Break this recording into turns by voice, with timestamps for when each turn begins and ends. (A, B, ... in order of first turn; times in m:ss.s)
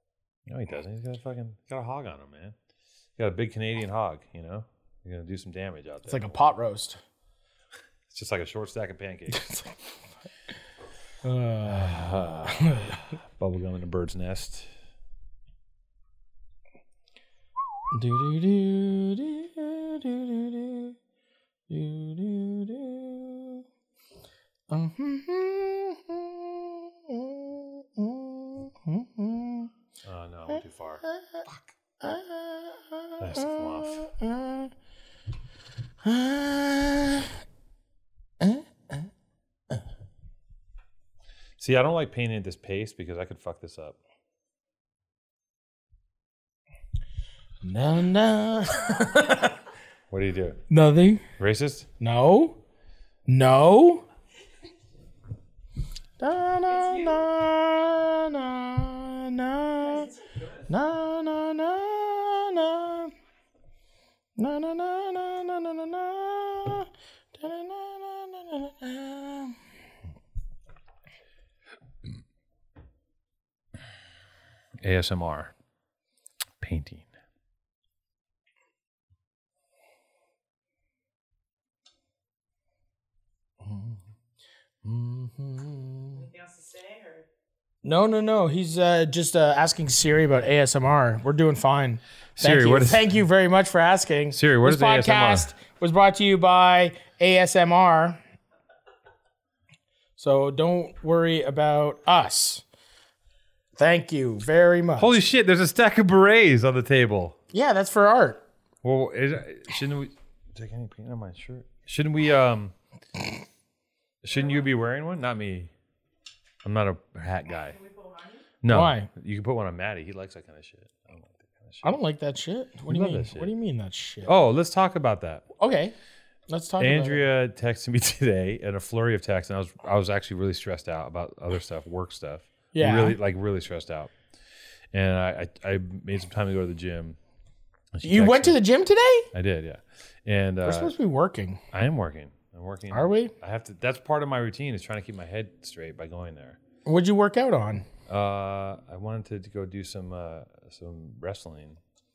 0:00.5-0:02.6 A
0:03.2-0:06.5 A
0:06.1-0:07.0 B
0:08.1-0:09.5 A
0:09.3-0:09.7 B
0:11.2-0:13.0 B
0:11.7-0:14.7 A
0:17.9-0:21.0 B
0:21.7-0:23.6 B
0:24.7-0:29.7 B
0:30.0-0:31.7 A
0:30.5-0:31.4 B
0:32.0-0:34.7 B
0:33.2-0:34.1 A
0:36.0-0:37.4 B
0:38.4-0:39.1 B
0:41.6-0:44.0 A
0:47.6-0:49.6 B
0:50.1-0:50.6 A
0:50.7-0:51.2 B
0:51.4-0:51.9 A
0:52.0-0:52.6 B
0:53.3-0:54.0 B
0:56.2-1:00.1 B
1:00.7-1:03.1 B
1:04.4-1:09.6 B
1:14.8-1:15.5 A
1:16.6-1:17.1 A
1:23.6-1:24.0 B
1:24.8-1:26.2 B
1:26.1-1:27.3 C
1:27.8-1:38.2 B
1:32.4-1:33.1 A
1:34.3-1:35.5 A
1:40.2-1:42.6 B
1:43.8-1:45.2 B
1:45.0-1:47.4 A
1:47.5-1:48.4 B
1:48.8-1:52.7 A
1:54.2-1:55.7 A
1:56.6-1:57.8 A
1:57.7-1:58.4 C
1:58.6-2:02.0 A
1:58.7-1:59.1 B
2:01.8-2:04.3 B
2:02.9-2:03.5 A
2:04.2-2:05.5 A
2:05.6-2:06.0 B
2:06.5-2:07.2 B
2:06.8-2:14.1 A
2:12.7-2:13.2 B
2:14.9-2:17.2 A
2:17.9-2:18.6 A
2:18.0-2:19.3 B
2:19.3-2:20.9 A
2:20.6-2:21.6 B
2:21.7-2:26.6 A
2:22.9-2:23.3 B
2:26.8-2:27.9 B
2:28.1-2:31.8 A